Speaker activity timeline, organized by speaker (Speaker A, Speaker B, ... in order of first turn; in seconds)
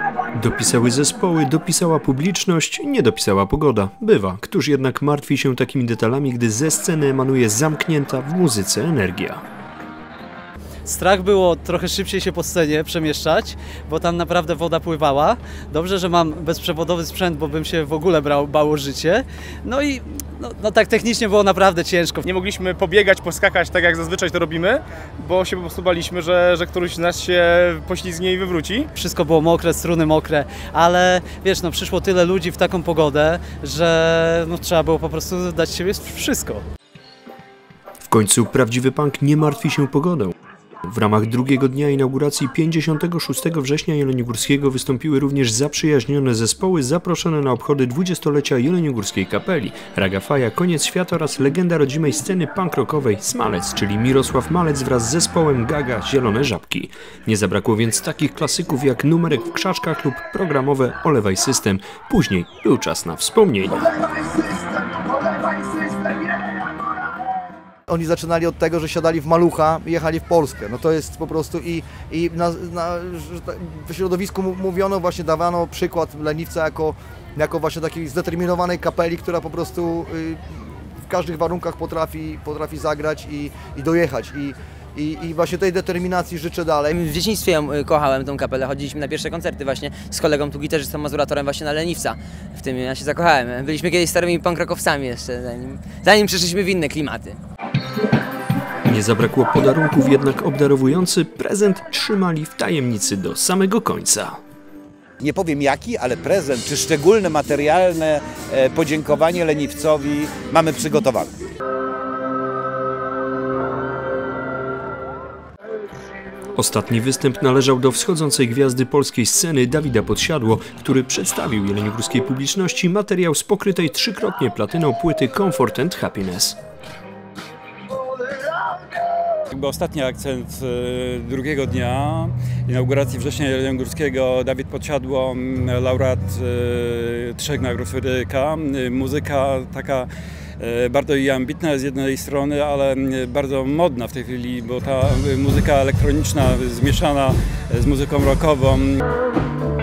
Speaker A: 0.3-9.4, 38.0-40.3, 40.9-63.9, 98.8-104.4, 116.5-126.6
Speaker B: 10.8-22.3, 28.9-36.6
Speaker C: 22.2-28.9
Speaker D: 64.1-66.8
Speaker E: 67.9-87.0
Speaker F: 86.9-97.4
Speaker G: 105.2-111.3
Speaker H: 129.5-140.1, 140.6-149.0